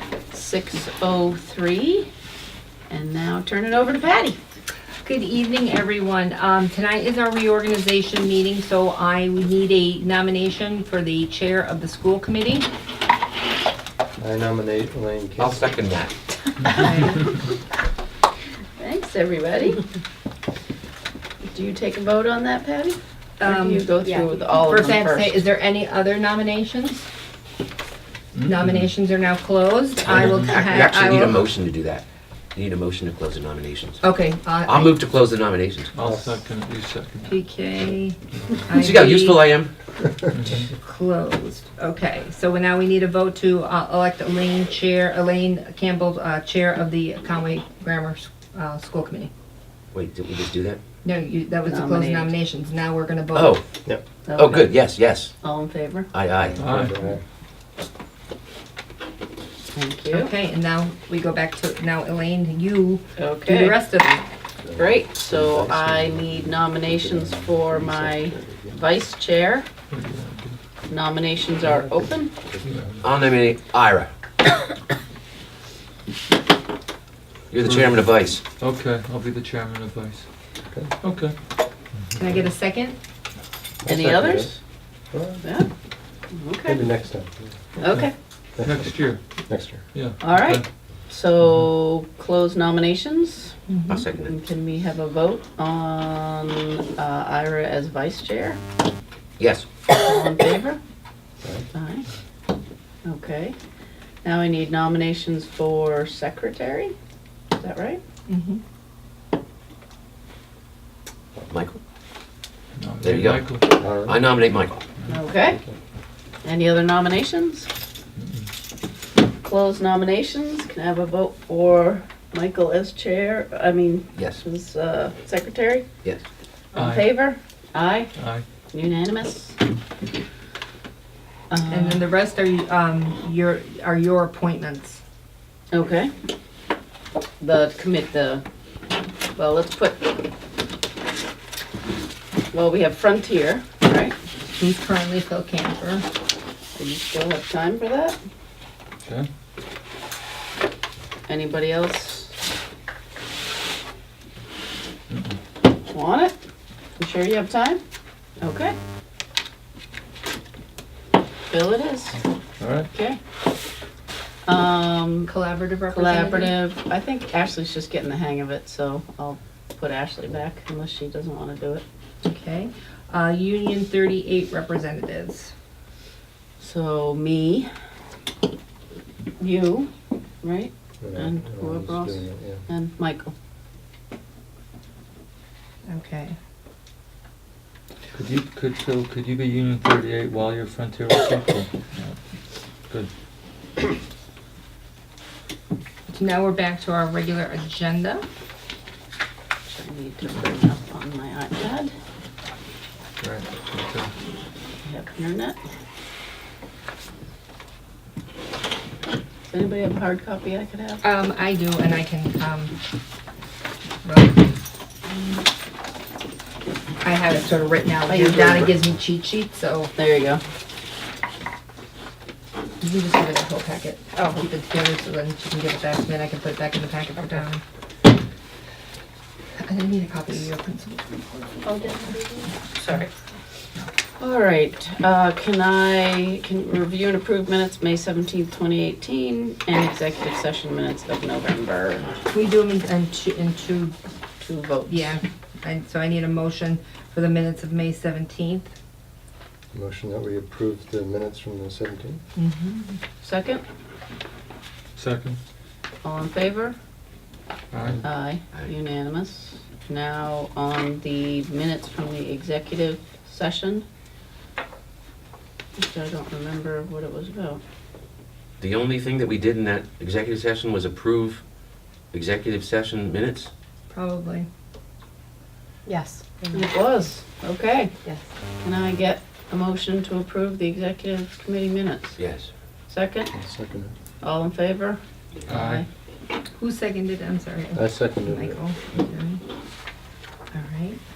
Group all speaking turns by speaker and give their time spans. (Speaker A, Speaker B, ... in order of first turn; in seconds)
Speaker A: 0.3-2.1, 2.9-4.4, 16.7-17.2, 18.8-19.8, 21.4-25.4, 51.7-52.3, 54.3-54.8, 55.4-56.1, 59.7-60.3, 63.2-63.8, 64.8-69.7, 70.9-72.3, 83.9-84.6, 85.4-85.7, 86.3-86.8, 87.8-88.2, 90.2-98.6, 99.9-100.8, 101.7-102.1, 103.0-103.5, 104.2-106.9, 107.6-108.0, 115.1-115.6, 116.4-117.7, 119.4-125.9, 126.7-128.1, 128.7-129.6, 131.5-132.1, 135.7-136.1, 137.4-138.4, 139.3-140.1, 142.5-144.2, 146.8-148.2, 151.3-152.3, 155.9-156.4, 157.0-157.8, 158.4-158.8, 161.5-162.2, 162.9-163.2, 164.4-165.3, 165.9-171.8, 176.6-177.7, 179.4-179.9, 180.4-183.3, 199.7-201.9, 204.8-205.6, 209.5-211.0, 218.1-218.7, 220.0-220.4, 231.7-233.1, 234.2-242.1, 244.4-245.2, 253.2-253.6, 256.0-256.8, 258.0-263.9, 265.8-267.6, 276.5-277.9, 278.6-283.3, 284.2-285.9
Speaker B: 5.0-12.7, 16.8-17.2, 23.4-27.1, 28.4-31.5, 34.0-34.9, 37.3-39.4, 40.7-49.3, 51.0-53.6, 60.1-64.2, 82.2-83.0, 93.7-94.0, 108.3-108.6, 131.7-135.0, 144.6-146.1, 165.2-166.6, 172.2-175.5, 185.9-186.4, 196.1-198.2, 211.0-212.7, 214.0-214.5, 217.0-219.9, 222.8-227.6, 229.6-232.2, 232.8-233.1, 242.3-243.9, 244.9-248.7, 252.3-253.0, 273.9-274.5, 275.9-276.7, 286.6-289.4, 290.5-291.0
Speaker C: 14.2-15.7, 36.0-36.4, 56.6-57.2, 64.6-68.9, 72.4-73.1, 83.8-84.5, 85.1-85.4, 86.7-87.7, 88.6-88.9, 89.5-89.8, 113.8-114.2, 115.4-115.7, 181.0-182.7, 249.7-252.2, 283.3-283.9, 287.8-288.6
Speaker D: 15.4-16.1, 30.1-34.0, 34.6-35.9, 38.7-39.7, 49.9-50.8, 53.3-53.6, 54.4-55.4, 56.1-56.6, 73.0-74.1, 77.5-78.4, 93.9-94.3, 99.4-99.7, 111.5-111.8, 113.0-114.8, 124.1-124.4, 268.6-271.4, 272.1-273.5, 282.2-282.5
Speaker E: 28.3-28.9, 30.1-30.6, 35.9-37.4, 40.3-40.7, 56.6-57.0, 69.9-70.6, 72.6-72.9, 77.6-80.3, 81.0-81.3, 88.6-89.2, 89.9-90.7, 112.8-113.7, 118.2-118.5, 126.7-127.2, 128.2-128.4, 149.0-149.3, 155.1-155.4, 162.2-162.9, 188.1-192.2, 203.2-204.1, 255.0-255.4, 257.7-258.0, 285.5-285.9